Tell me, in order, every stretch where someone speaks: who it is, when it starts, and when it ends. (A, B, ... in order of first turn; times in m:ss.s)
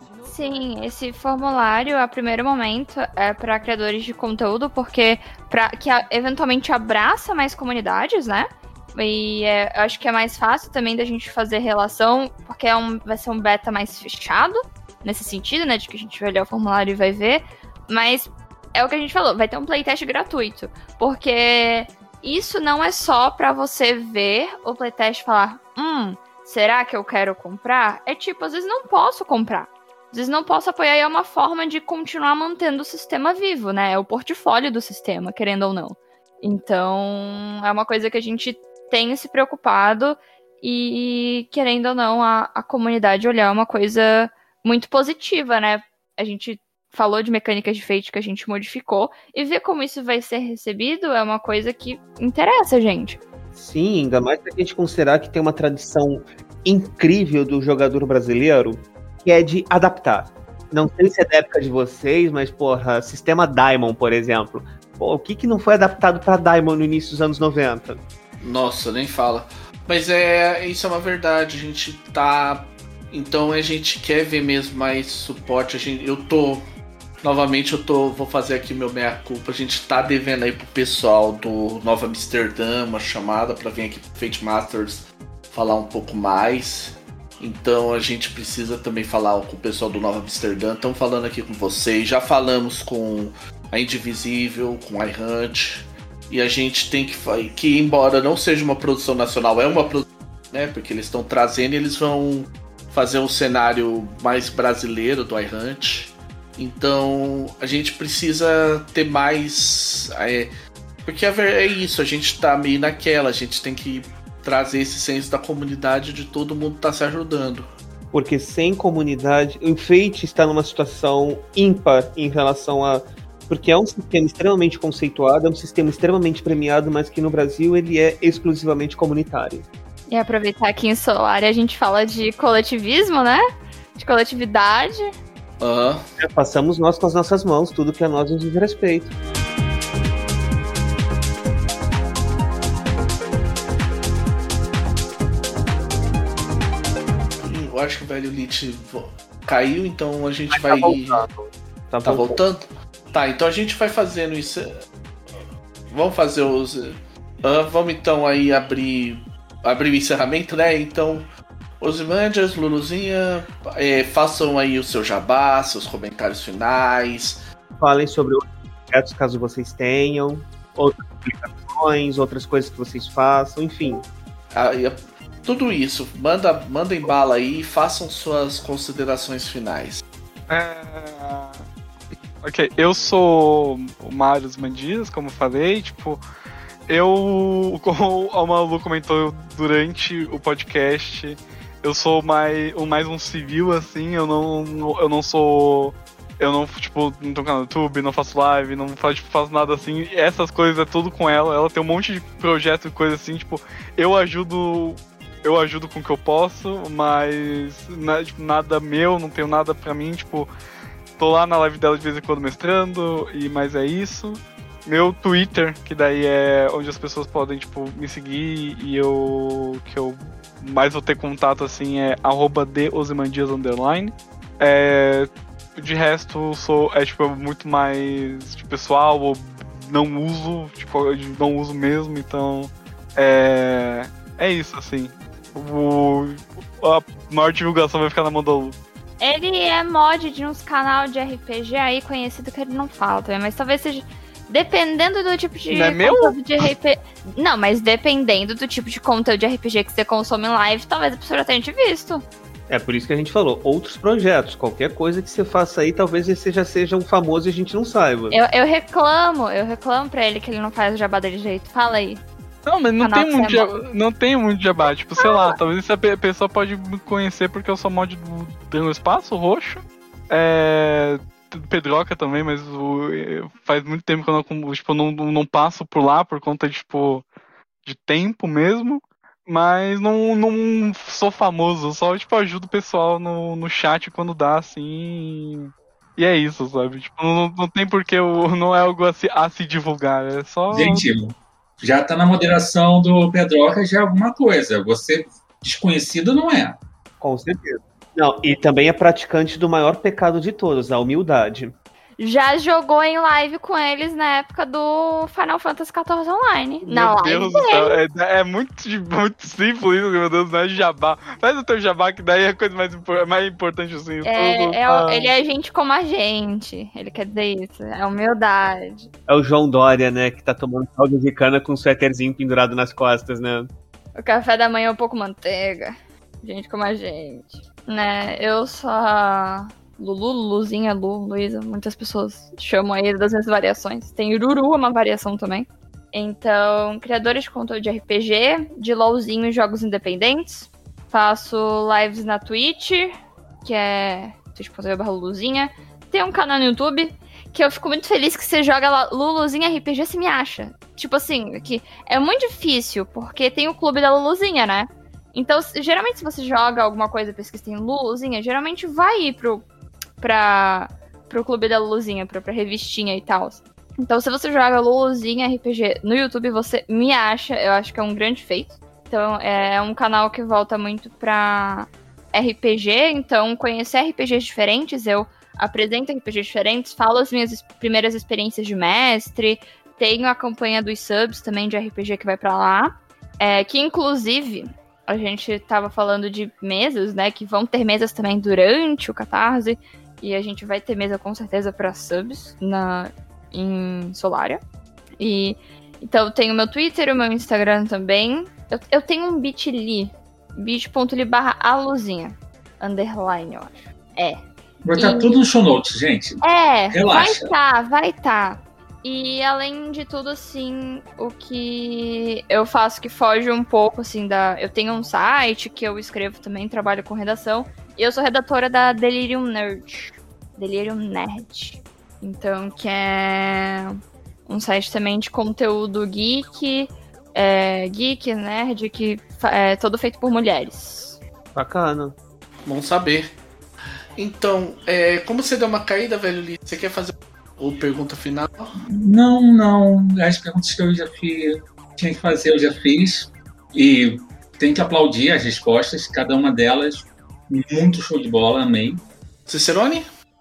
0:00.2-0:53.2 A
0:53.5-1:08.0 B
1:08.4-1:16.6 C
1:17.2-1:50.5 C
1:51.0-1:57.6 C
1:58.1-2:09.6 B
2:10.1-2:13.4 A
2:14.0-2:15.1 A
2:15.6-2:16.0 C
2:16.2-2:19.1 B
2:27.4-2:31.2 C
2:30.5-2:32.4 B
2:32.0-2:34.6 C
2:35.9-2:41.2 C
2:41.8-2:47.4 C
2:47.8-2:54.0 B
2:54.5-3:00.0 C
3:00.5-3:01.6 D
3:02.4-3:06.2 D
3:06.9-3:30.5 D
3:31.2-3:58.8 D
3:59.2-4:12.2 A
4:05.7-4:06.4 D
4:12.7-4:18.4 B
4:18.3-4:22.2 A
4:22.6-4:37.2 D
4:23.0-4:23.7 A
4:25.2-4:25.6 A
4:37.8-4:51.0 D
4:50.7-4:56.8 E
4:57.2-5:01.7 B
5:02.2-5:08.0 A
5:06.8-5:15.3 D
5:14.2-5:19.1 A
5:19.3-5:23.7 B
5:24.1-5:59.6 A
6:00.2-6:34.6 A
6:35.2-6:44.4 A
6:44.8-6:47.5 E
6:45.0-6:45.4 A
6:46.4-7:11.2 A
7:11.5-7:12.2 B
7:12.6-7:13.2 C
7:14.2-7:18.7 C
7:18.8-7:29.0 E
7:29.5-7:30.0 C